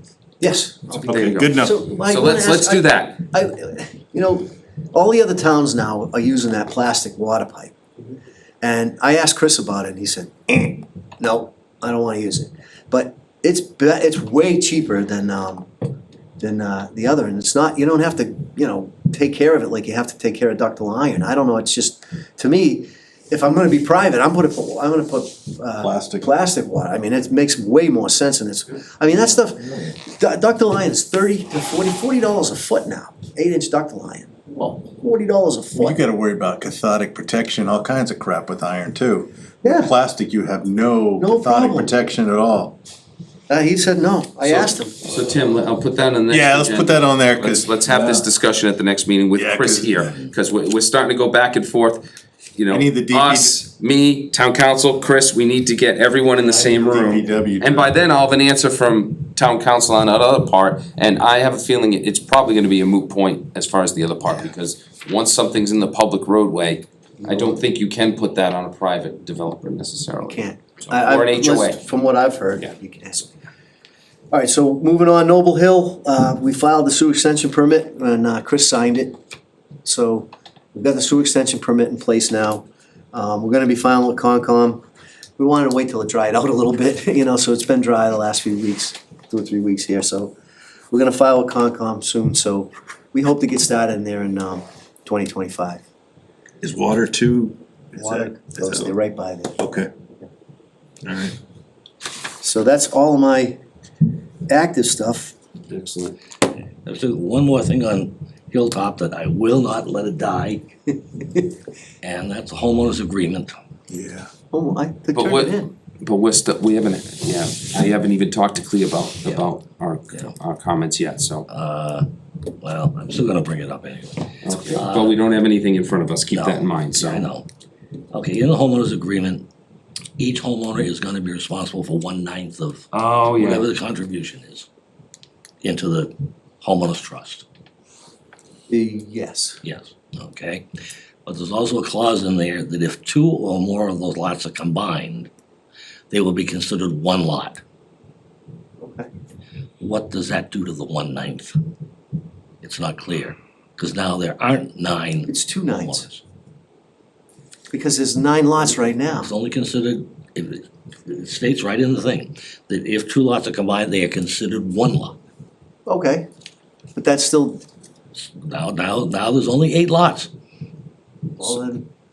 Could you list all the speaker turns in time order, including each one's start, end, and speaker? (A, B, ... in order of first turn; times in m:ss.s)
0:00.4-0:07.8 A
0:01.0-0:03.2 B
0:01.1-0:01.8 C
0:08.6-0:15.7 A
0:16.4-0:36.0 A
0:25.8-0:26.3 C
0:35.8-0:42.8 C
0:39.6-0:39.9 A
0:41.2-0:42.0 A
0:43.5-0:45.0 A
0:44.4-0:52.0 B
0:46.3-0:48.2 C
0:49.4-0:50.1 C
0:52.6-1:11.8 B
0:52.7-0:53.6 C
0:56.4-0:58.0 C
1:07.2-1:07.6 A
1:10.3-1:13.3 A
1:14.3-1:19.2 A
1:19.8-1:24.8 A
1:25.4-1:30.3 A
1:30.9-1:35.8 A
1:36.6-1:38.9 C
1:38.0-1:39.6 A
1:39.6-1:39.9 C
1:41.0-1:41.4 C
1:42.4-1:43.6 A
1:44.5-1:45.3 A
1:45.7-1:46.2 B
1:46.8-1:50.7 D
1:52.0-1:53.6 D
1:53.9-1:54.3 C
1:54.5-1:55.7 A
1:55.2-2:01.5 B
2:01.5-2:02.1 D
2:02.6-2:05.2 D
2:04.4-2:07.3 B
2:06.3-2:07.5 D
2:08.1-2:09.5 D
2:10.2-2:14.7 D
2:12.9-2:13.7 B
2:15.6-2:17.4 D
2:18.7-2:19.6 A
2:19.6-2:20.6 D
2:21.2-2:25.3 D
2:26.1-2:27.6 D
2:28.8-2:29.1 A
2:29.8-2:31.6 D
2:32.6-2:36.2 D
2:35.3-2:36.1 A
2:37.7-2:39.3 A
2:39.2-2:45.2 D
2:45.9-2:46.3 A
2:47.0-2:47.6 A
2:48.2-2:50.3 D
2:51.4-2:51.9 A